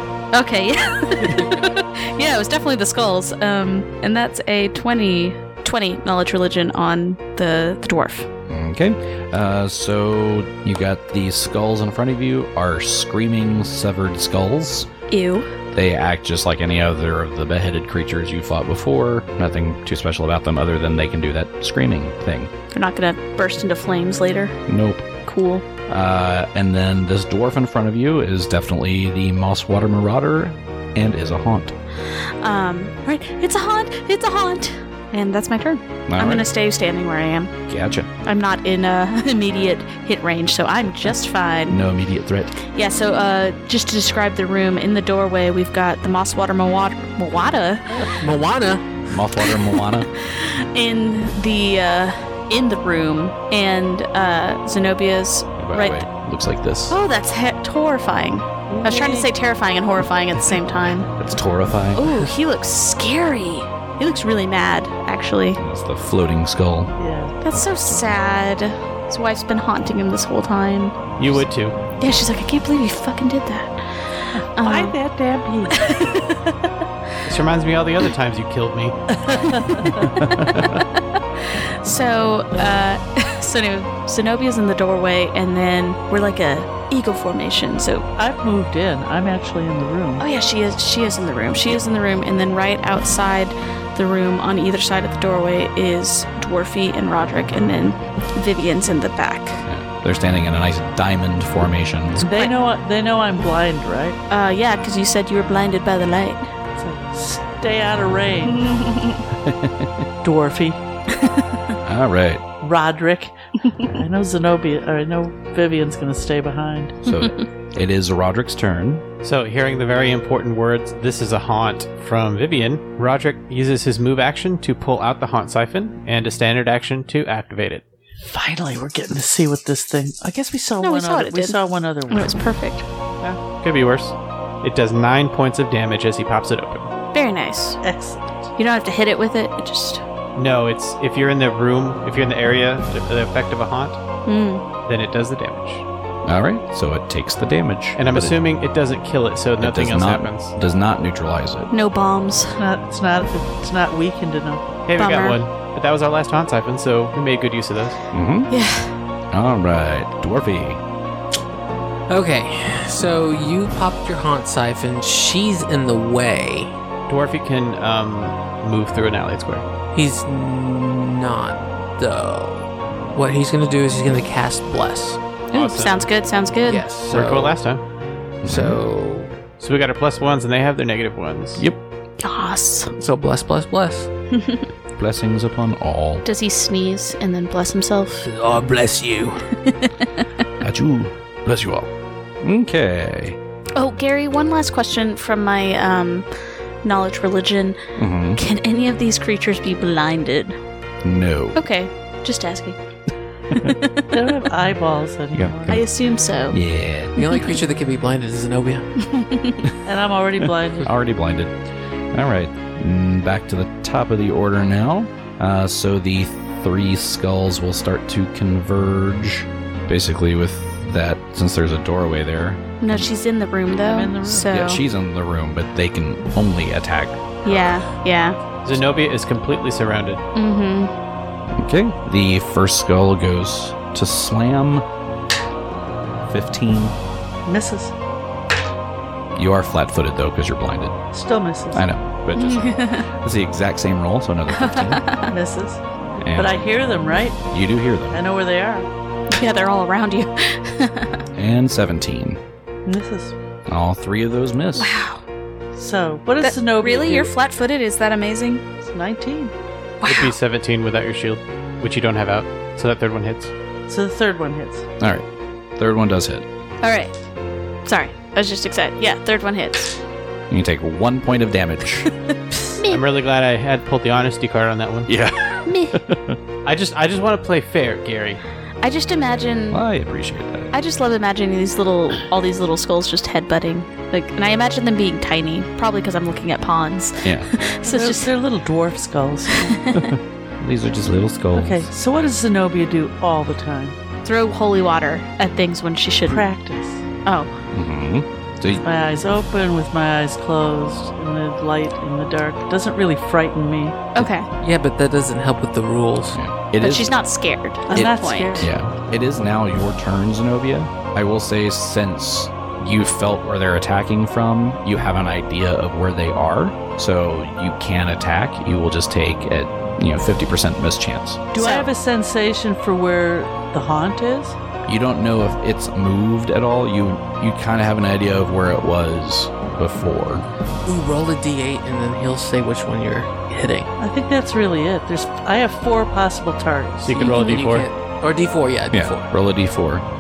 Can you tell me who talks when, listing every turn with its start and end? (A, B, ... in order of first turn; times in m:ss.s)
0:00.3-0:08.3 A
0:08.5-0:14.9 B
0:15.1-0:15.5 A
0:15.7-0:22.5 B
0:22.7-0:24.6 A
0:24.7-0:25.1 B
0:25.2-0:25.6 A
0:25.9-0:31.7 B
0:32.4-0:37.5 A
0:36.1-0:36.5 B
0:37.7-0:38.1 B
0:38.2-0:41.8 A
0:41.7-0:42.6 B
0:42.6-0:48.2 A
0:48.2-0:48.9 C
0:49.1-0:50.1 B
0:49.5-0:56.0 A
0:55.6-0:57.0 B
0:56.9-1:01.1 A
0:58.7-0:59.3 D
1:01.2-1:02.2 B
1:02.0-1:05.6 A
1:05.6-1:07.0 B
1:07.0-1:07.4 D
1:07.4-1:11.1 A
1:07.5-1:08.2 B
1:11.2-1:11.8 E
1:12.0-1:15.0 A
1:14.4-1:15.9 D
1:15.7-1:16.5 A
1:17.2-1:19.0 E
1:19.2-1:20.1 D
1:19.5-1:28.1 A
1:20.2-1:20.8 B
1:28.2-1:30.2 D
1:30.2-1:39.6 A
1:39.7-1:42.3 B
1:42.2-1:42.5 A
1:42.2-1:44.2 D
1:44.3-1:46.5 A
1:46.8-1:48.7 D
1:49.3-1:50.1 B
1:50.2-1:50.8 D
1:51.2-1:51.5 A
1:51.8-1:52.4 B
1:52.6-1:57.0 D
1:57.0-1:59.0 B
1:59.2-2:07.8 E
2:08.3-2:12.4 D
2:10.8-2:12.9 A
2:13.2-2:16.9 E
2:17.1-2:17.8 A
2:17.8-2:18.5 D
2:18.6-2:20.0 A
2:20.4-2:24.0 E
2:24.3-2:24.6 A
2:24.9-2:25.8 E
2:26.2-2:28.4 B
2:28.0-2:30.6 E
2:29.6-2:31.7 B
2:31.7-2:32.6 A
2:32.6-2:34.6 D
2:34.9-2:38.0 E
2:35.0-2:35.4 A
2:38.1-2:38.5 B
2:38.5-2:38.9 A
2:39.3-2:40.8 B
2:42.1-2:46.8 C
2:47.1-2:49.6 E
2:49.9-2:55.2 C
2:55.5-2:56.0 E
2:55.5-2:56.8 A
2:56.6-2:57.6 C
2:57.1-2:57.8 E
2:58.4-2:58.8 B
2:58.4-2:59.3 C
2:59.6-3:01.6 E
3:02.2-3:02.9 A
3:03.0-3:04.1 C
3:04.3-3:04.6 A
3:05.0-3:06.2 B
3:06.2-3:08.3 A
3:08.2-3:09.5 C
3:09.6-3:10.1 A
3:10.6-3:11.9 B
3:12.4-3:13.4 B
3:13.8-3:16.3 A
3:16.8-3:17.8 A
3:18.0-3:18.4 B
3:18.4-3:20.6 A
3:21.0-3:21.6 B
3:21.6-3:22.8 A
3:23.5-3:24.1 A
3:24.1-3:25.8 D
3:25.3-3:25.8 B
3:25.7-3:26.6 A
3:26.5-3:27.2 B
3:27.2-3:27.6 A
3:27.2-3:28.9 C
3:29.0-3:29.6 A
3:29.8-3:30.9 D
3:30.8-3:42.6 B
3:42.8-3:44.8 A
3:43.8-3:44.5 D
3:44.5-3:47.8 B
3:47.4-3:48.4 A
3:48.6-3:50.2 E
3:50.4-3:50.9 A
3:51.6-3:54.8 B
3:56.3-3:57.0 B
3:57.5-3:57.9 D
3:59.4-4:01.0 B
4:01.1-4:01.9 D
4:01.7-4:05.2 B
4:02.4-4:03.1 A
4:04.5-4:05.3 A
4:05.3-4:05.8 D
4:06.2-4:06.6 B
4:06.4-4:07.4 D
4:07.5-4:08.2 B
4:08.1-4:08.9 D
4:09.3-4:11.2 A
4:11.4-4:12.4 B
4:12.9-4:13.4 D
4:13.7-4:15.0 B
4:14.8-4:15.2 A
4:15.8-4:17.3 D
4:16.4-4:18.6 A
4:18.8-4:19.5 D
4:20.0-4:20.4 A
4:20.1-4:23.5 E
4:23.9-4:24.9 D
4:25.0-4:26.4 B
4:26.8-4:27.2 A
4:27.8-4:30.0 A
4:30.5-4:32.1 B
4:32.3-4:33.0 A
4:32.9-4:35.1 E
4:35.1-4:36.4 B
4:35.7-4:36.0 A
4:36.6-4:38.4 E
4:38.8-4:39.8 A
4:39.7-4:40.7 B
4:40.7-4:48.3 A
4:47.2-4:47.5 B
4:47.8-4:49.8 D
4:49.5-4:50.2 A
4:50.0-4:51.9 B
4:51.5-4:54.0 D
4:54.2-4:56.5 A
4:56.2-4:57.0 D
4:57.2-4:57.5 A
4:57.7-4:58.8 B
4:58.8-5:04.0 D
5:04.2-5:04.5 A
5:04.6-5:06.4 C
5:06.3-5:07.1 B
5:06.8-5:08.7 A
5:07.9-5:08.8 D
5:07.9-5:21.5 B
5:21.5-5:21.9 A
5:21.5-5:24.6 D
5:24.9-5:30.4 B
5:30.8-5:33.9 C
5:34.0-5:37.1 D
5:37.0-5:37.9 E
5:37.1-5:39.3 C
5:37.2-5:37.6 A
5:38.9-5:40.0 B